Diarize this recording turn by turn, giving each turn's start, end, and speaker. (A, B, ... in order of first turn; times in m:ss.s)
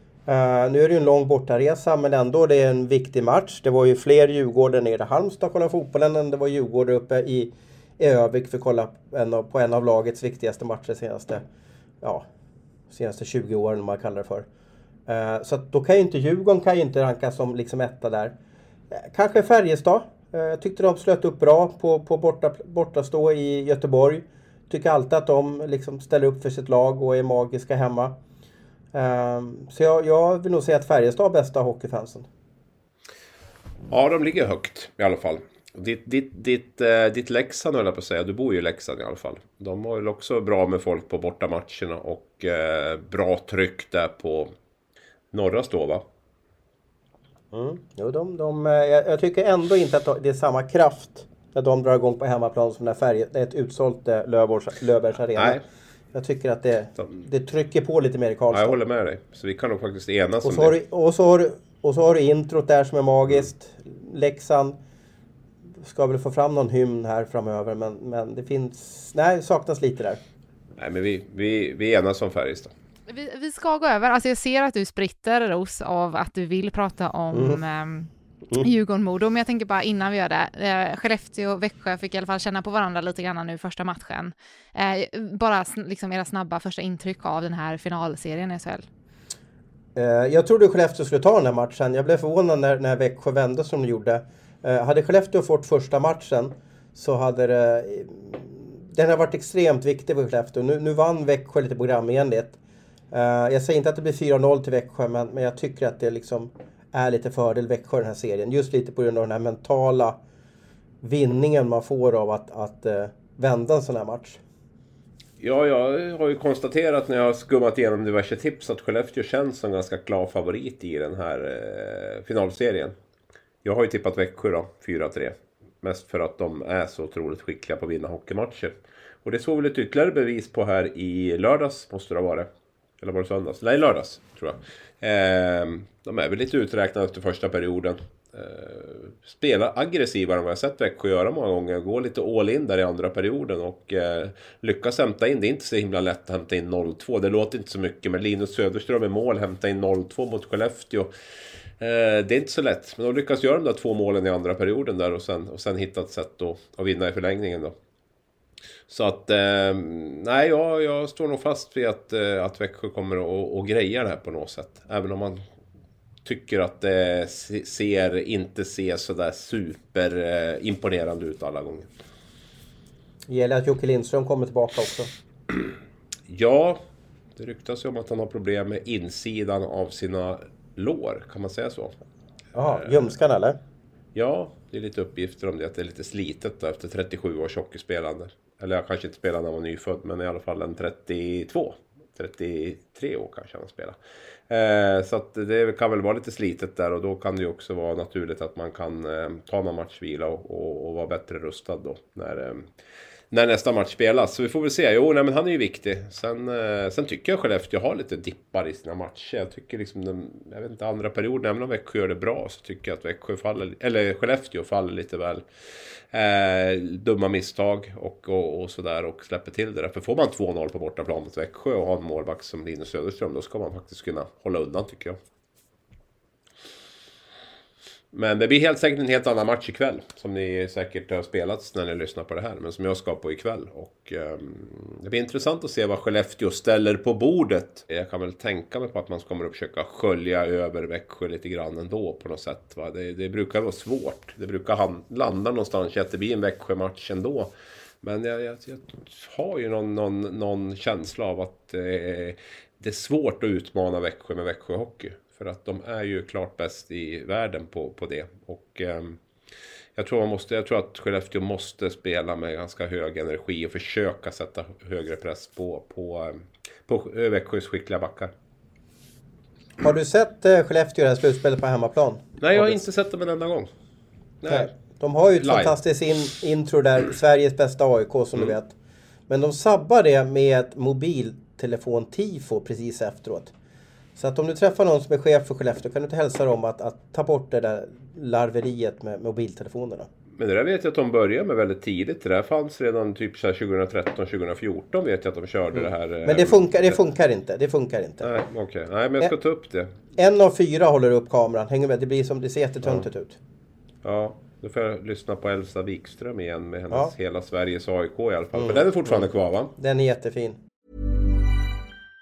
0:00.2-0:11.4 A
0:12.9-0:14.4 A
0:15.1-0:18.4 A
0:18.9-0:28.2 A
0:28.9-0:32.3 A
0:33.9-0:44.5 B
0:45.3-0:46.0 B
0:47.5-0:55.6 A
0:55.3-0:55.6 B
0:56.1-0:58.8 A
0:58.5-1:00.8 B
1:00.4-1:04.8 A
1:05.8-1:10.2 A
1:10.8-1:12.7 B
1:13.1-1:28.8 C
1:17.3-1:17.6 A
1:29.9-1:42.6 A
1:43.1-1:50.2 A
1:51.0-1:54.4 A
1:55.4-2:02.9 B
2:03.6-2:12.5 B
2:13.0-2:31.1 B
2:31.8-2:37.7 B
2:38.9-2:45.4 B
2:46.2-2:51.9 B
2:53.3-2:55.1 A
2:56.3-2:56.8 B
2:57.4-3:01.9 B
3:02.5-3:03.6 A
3:04.1-3:14.0 B
3:14.5-3:22.7 B
3:23.3-3:35.4 B
3:36.1-3:45.2 B
3:48.1-4:07.5 B
4:08.0-4:19.2 B
4:20.0-4:28.3 B
4:29.8-4:32.8 A
4:32.4-4:33.7 B
4:34.4-4:34.7 B
4:34.5-4:38.7 A
4:35.4-4:35.7 B
4:39.3-4:43.5 A
4:44.2-4:50.1 A
4:50.4-4:57.0 B
4:55.7-4:58.3 A
4:58.2-4:59.9 B
5:00.2-5:03.4 A
5:04.0-5:09.7 B
5:08.5-5:10.6 A